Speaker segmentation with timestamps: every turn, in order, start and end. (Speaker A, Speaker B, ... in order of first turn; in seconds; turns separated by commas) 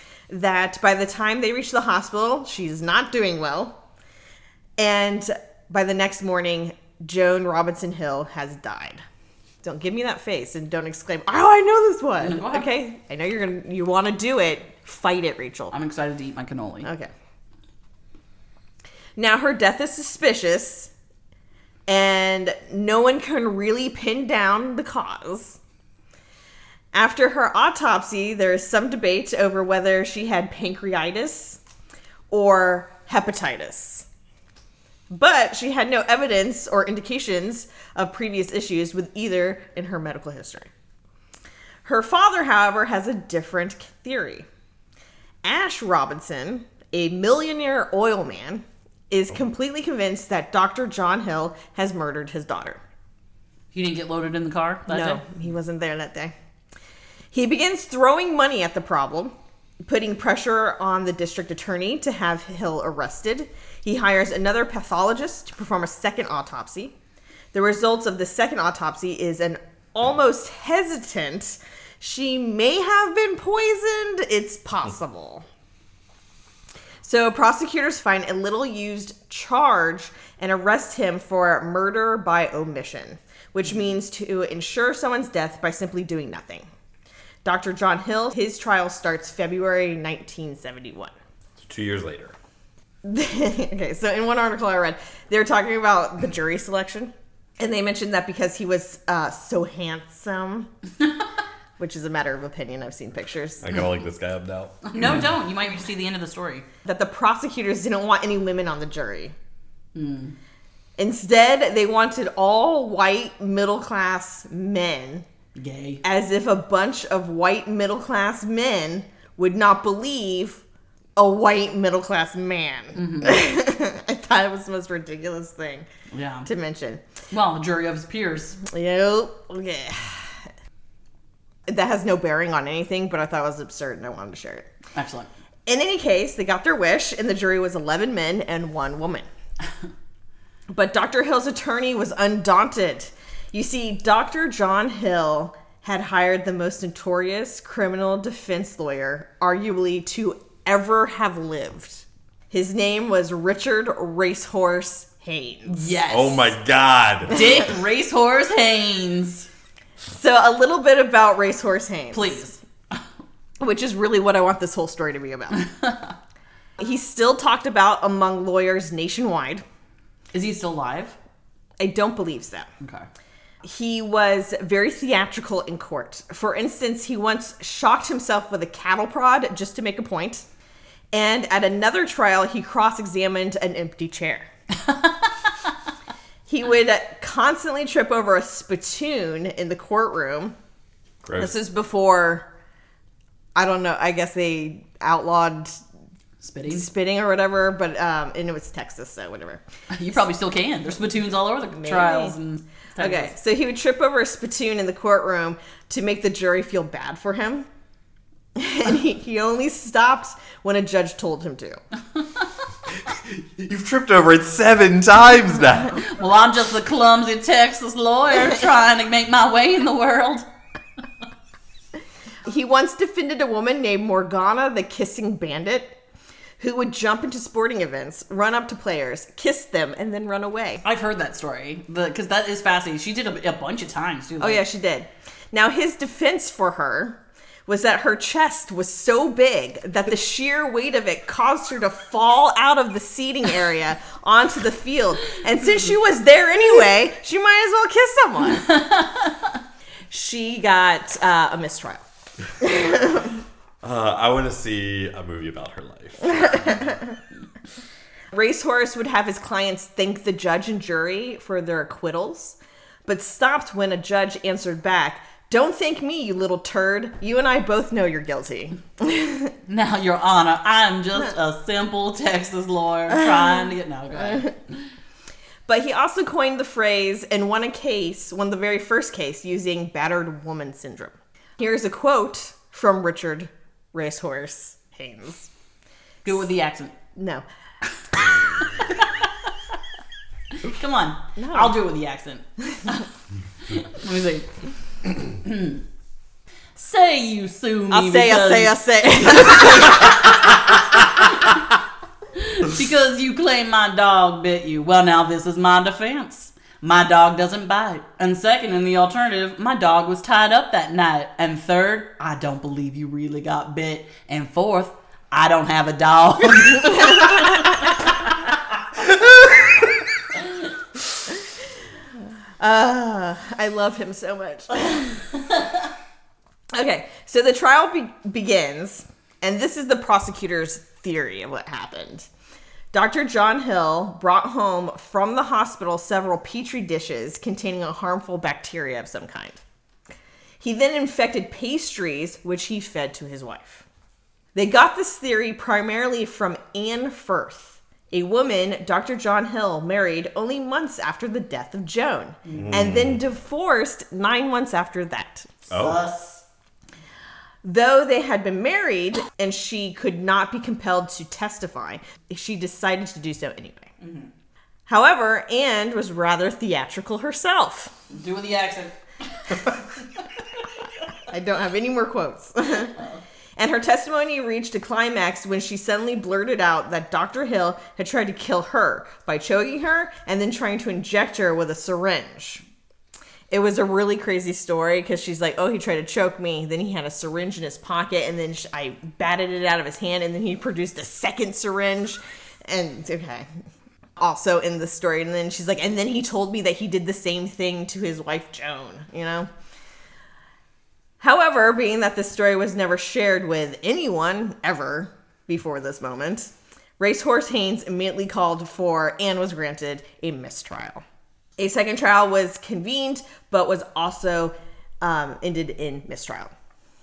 Speaker A: 0.3-3.8, Speaker A: 4.8-9.0, Speaker A: 9.6-15.7, Speaker B: 12.2-12.7, Speaker B: 15.7-16.9, Speaker A: 16.9-17.1, Speaker A: 19.2-20.9, Speaker A: 21.9-25.6, Speaker A: 26.9-31.6, Speaker A: 32.3-34.1, Speaker A: 35.1-40.7, Speaker A: 41.9-44.5, Speaker A: 45.4-52.8, Speaker B: 53.7-55.2, Speaker A: 54.9-56.3, Speaker A: 57.3-59.3, Speaker A: 59.9-67.0, Speaker A: 67.5-75.5, Speaker A: 77.0-86.7, Speaker A: 87.4-91.1, Speaker C: 91.6-92.3, Speaker A: 93.0-100.7, Speaker A: 101.8-103.8, Speaker C: 103.6-105.0, Speaker B: 104.9-106.7, Speaker A: 106.8-109.3, Speaker B: 110.0-110.3, Speaker A: 111.0-115.2, Speaker B: 115.5-116.0, Speaker A: 116.0-120.6, Speaker A: 121.2-125.9, Speaker B: 123.0-123.4, Speaker B: 126.1-126.5, Speaker A: 126.5-127.0, Speaker B: 127.3-128.6, Speaker A: 128.6-130.5, Speaker A: 131.7-134.7, Speaker B: 134.9-135.3, Speaker A: 135.7-139.3, Speaker A: 140.7-155.9, Speaker B: 155.7-156.5, Speaker C: 156.1-157.5, Speaker B: 157.3-159.5, Speaker A: 160.1-162.5, Speaker B: 162.1-163.0, Speaker A: 163.6-165.6, Speaker B: 165.5-166.1, Speaker A: 166.8-169.6, Speaker B: 170.3-171.2, Speaker A: 171.8-172.7, Speaker B: 172.8-173.1, Speaker A: 173.6-180.4, Speaker A: 181.1-184.5, Speaker A: 186.5-190.6, Speaker C: 191.2-191.5, Speaker A: 191.3-192.5, Speaker A: 193.6-195.8, Speaker B: 196.4-196.9, Speaker A: 196.7-199.6, Speaker B: 199.9-203.3, Speaker A: 201.7-202.4, Speaker A: 203.0-207.7, Speaker A: 208.6-211.8, Speaker C: 213.0-216.0, Speaker B: 215.9-220.5, Speaker A: 222.5-226.0, Speaker A: 226.6-230.8, Speaker B: 230.8-234.7, Speaker A: 234.4-248.8, Speaker B: 248.7-249.5, Speaker A: 250.1-252.1, Speaker A: 252.6-253.4, Speaker C: 253.8-256.9, Speaker A: 256.3-257.1, Speaker A: 258.3-269.5, Speaker B: 269.7-274.8, Speaker A: 275.7-285.5, Speaker B: 286.2-287.0, Speaker A: 287.1-287.4, Speaker B: 288.2-289.3, Speaker B: 290.6-293.1, Speaker A: 291.4-291.8, Speaker B: 293.7-294.5, Speaker B: 295.3-295.8, Speaker B: 296.8-298.8, Speaker A: 297.9-300.3, Speaker B: 299.7-300.1, Speaker B: 300.9-301.6, Speaker B: 302.4-318.1, Speaker A: 322.6-325.2, Speaker A: 326.7-332.3, Speaker A: 332.9-339.6, Speaker A: 340.6-343.9, Speaker A: 344.6-355.5, Speaker B: 352.5-352.7, Speaker C: 352.6-353.2, Speaker B: 355.7-356.4, Speaker C: 355.7-356.0, Speaker A: 357.6-363.9, Speaker B: 364.0-364.3, Speaker A: 364.9-367.9, Speaker B: 368.1-369.8, Speaker A: 371.2-373.0, Speaker A: 373.6-382.6, Speaker A: 383.5-393.5, Speaker A: 394.2-399.5, Speaker A: 401.2-411.0, Speaker A: 411.6-416.5